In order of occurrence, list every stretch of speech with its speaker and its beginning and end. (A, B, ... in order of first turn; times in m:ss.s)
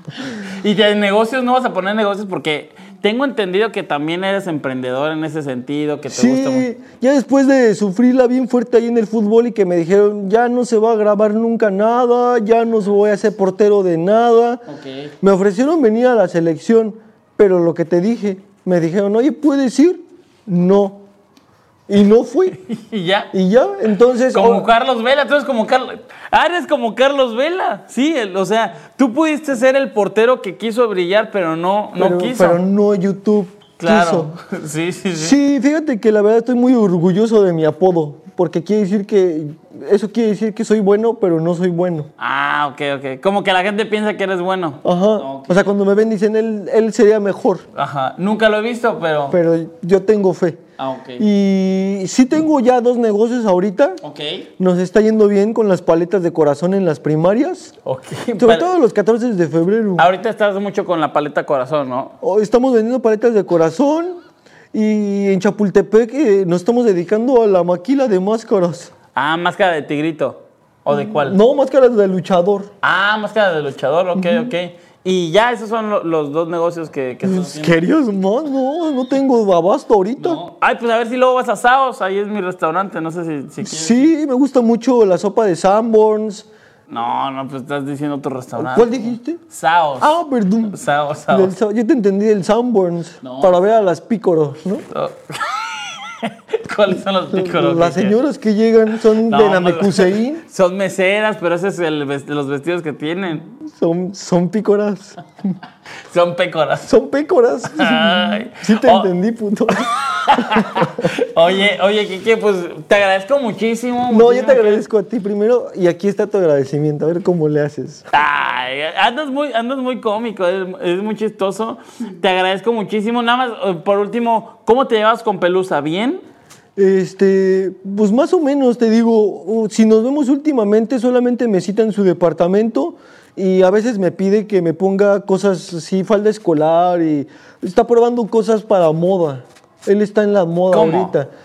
0:00.1-0:06.7 A
0:06.1-0:14.6 B
0:14.7-0:15.1 A
0:15.2-0:21.0 B
0:21.9-0:22.6 B
0:22.5-0:23.3 A
0:23.3-0:24.7 B
0:24.3-0:32.6 A
0:32.0-0:34.3 B
0:33.8-0:35.4 A
0:35.1-0:42.1 B
0:42.2-0:45.7 A
0:44.8-0:47.6 B
0:47.7-0:49.4 A
0:49.3-0:50.6 B
0:50.8-0:51.3 A
0:51.2-0:54.0 B
0:54.0-0:54.5 A
0:54.6-0:57.7 B
0:57.8-0:58.7 A
0:58.4-1:00.1 B
1:00.0-1:02.1 A
1:02.2-1:04.2 B
1:04.7-1:08.9 B
1:09.1-1:11.4 A
1:10.9-1:12.7 B
1:12.8-1:17.8 A
1:14.2-1:14.5 B
1:17.2-1:20.4 B
1:20.2-1:24.1 A
1:23.6-1:26.5 B
1:26.9-1:30.2 A
1:28.6-1:29.4 B
1:30.0-1:30.8 B
1:30.7-1:31.5 A
1:31.3-1:34.8 B
1:33.2-1:33.6 A
1:34.9-1:38.2 A
1:37.3-1:40.4 B
1:39.2-1:43.4 A
1:43.6-1:45.2 B
1:46.1-1:46.9 A
1:46.8-1:51.1 B
1:47.7-1:49.1 A
1:49.8-1:54.8 A
1:54.1-1:58.1 B
1:58.1-2:06.2 A
2:06.8-2:21.3 B
2:20.7-2:21.1 A